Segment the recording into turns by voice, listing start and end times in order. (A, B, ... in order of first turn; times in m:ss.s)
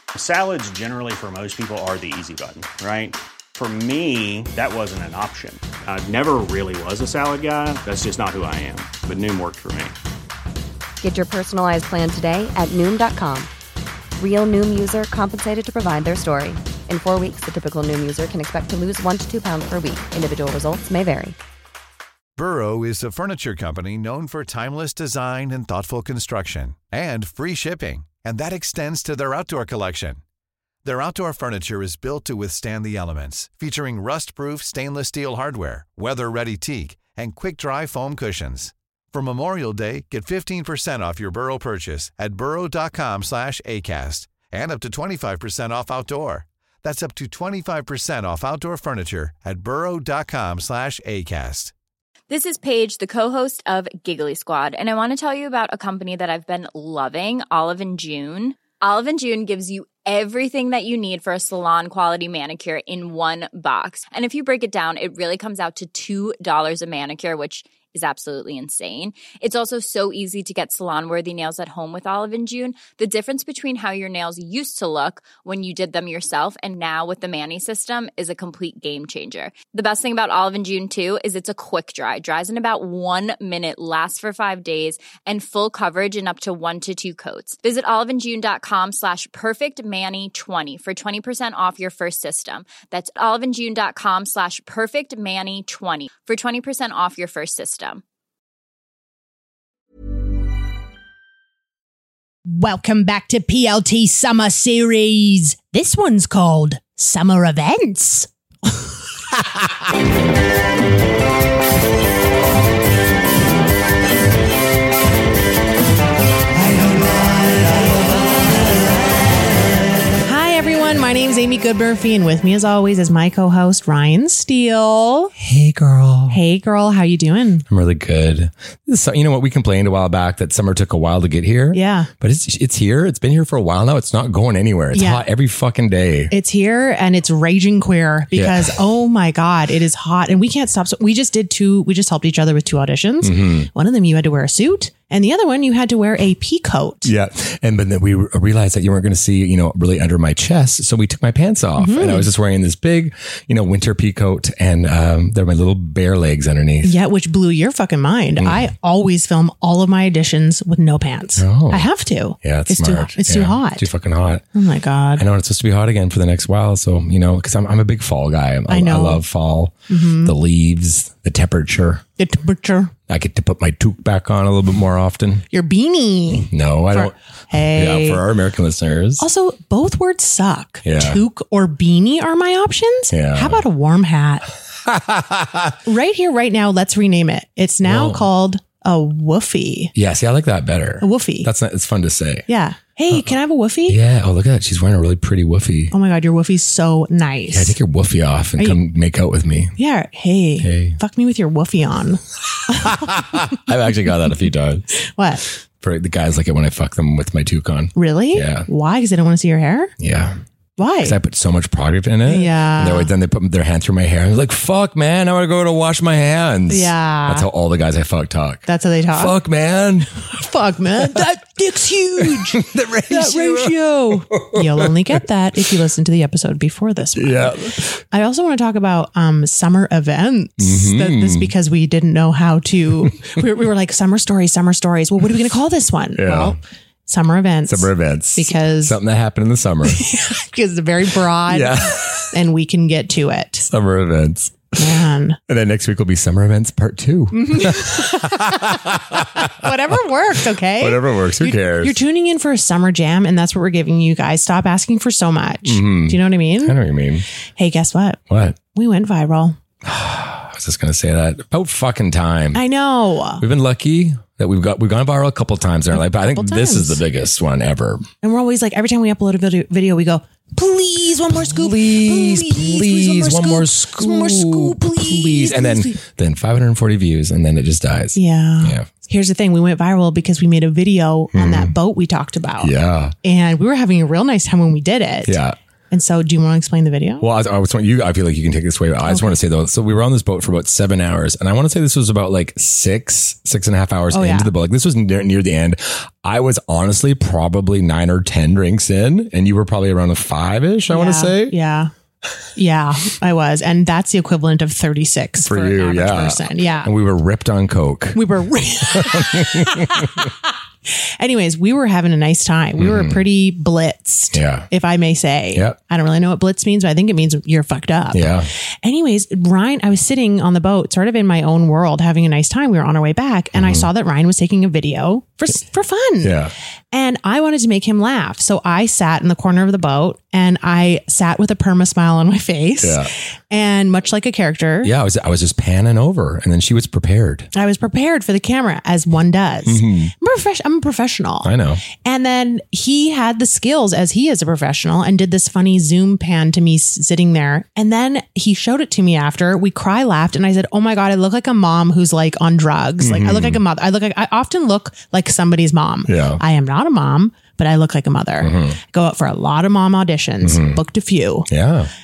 0:00.1-0:09.9 A
0:11.0-0:13.5 B
0:14.2-0:21.4 B
0:22.4-0:30.2 C
0:30.8-0:51.7 C
0:52.3-1:38.0 D
1:42.5-1:48.3 E
1:57.0-1:57.8 E
2:00.2-2:05.3 E
2:05.4-2:06.4 F
2:06.3-2:07.6 E
2:07.7-2:16.3 F
2:11.7-2:12.1 E
2:14.9-2:15.2 E
2:16.3-2:27.1 E
2:18.3-2:18.7 F
2:23.2-2:23.7 F
2:27.0-2:36.9 F
2:31.8-2:32.3 E
2:36.8-2:43.9 E
2:38.4-2:38.7 F
2:41.4-2:41.8 F
2:42.4-2:44.4 F
2:44.5-2:45.2 E
2:45.2-2:52.0 F
2:48.7-2:49.2 E
2:49.9-2:50.3 E
2:52.2-2:52.9 E
2:53.1-2:55.4 F
2:55.5-2:58.2 E
2:56.5-2:59.2 F
2:59.2-3:04.5 E
3:00.8-3:01.2 F
3:03.1-3:03.6 F
3:04.8-3:05.8 F
3:05.8-3:09.9 E
3:07.8-3:08.3 F
3:09.9-3:12.4 F
3:11.0-3:11.5 E
3:12.5-3:14.0 E
3:13.9-3:15.9 F
3:15.9-3:17.7 E
3:17.5-3:19.7 F
3:19.8-3:23.4 E
3:20.6-3:21.0 F
3:22.8-3:24.9 F
3:24.9-3:25.4 E
3:25.8-3:28.7 F
3:27.9-3:29.9 E
3:30.0-3:30.4 F
3:30.8-3:31.2 E
3:31.0-3:40.1 F
3:32.3-3:33.1 E
3:36.7-3:37.5 E
3:38.6-3:39.3 E
3:40.2-3:47.5 E
3:42.2-3:43.8 F
3:44.3-3:45.2 F
3:47.2-3:48.0 F
3:48.1-3:59.0 E
3:50.6-3:51.5 F
3:56.2-3:56.6 F
3:57.7-4:00.0 F
3:59.9-4:03.6 E
4:01.5-4:02.3 F
4:03.6-4:09.7 F
4:04.8-4:05.4 E
4:07.3-4:16.8 E
4:10.8-4:12.0 F
4:15.6-4:17.2 F
4:17.6-4:18.2 E
4:18.3-4:18.6 F
4:18.7-4:19.6 E
4:19.8-4:22.6 F
4:22.5-4:23.4 E
4:23.4-4:28.1 F
4:25.9-4:27.0 E
4:28.2-4:36.0 E
4:31.3-4:38.9 F
4:38.1-4:45.4 E
4:41.3-4:41.7 F
4:42.6-4:43.1 F
4:45.2-4:45.6 F
4:45.9-4:47.2 E
4:47.2-5:01.6 F
4:49.0-4:49.4 E
4:54.1-4:54.5 E
5:00.9-5:01.9 E
5:02.5-5:06.9 E
5:05.4-5:08.2 F
5:08.1-5:18.3 E
5:08.9-5:10.3 F
5:12.8-5:13.2 F
5:14.3-5:14.7 F
5:18.1-5:18.5 F
5:18.8-5:26.4 E
5:23.5-5:23.9 F
5:26.2-5:26.5 F
5:26.9-5:34.9 E
5:32.8-5:33.1 F
5:34.8-5:37.5 F
5:37.5-6:01.5 E
5:39.6-5:40.1 F
5:41.4-5:41.8 F
5:53.0-5:53.6 F
5:56.1-5:56.4 F
5:58.4-5:58.8 F
6:00.4-6:00.8 F
6:01.5-6:01.9 F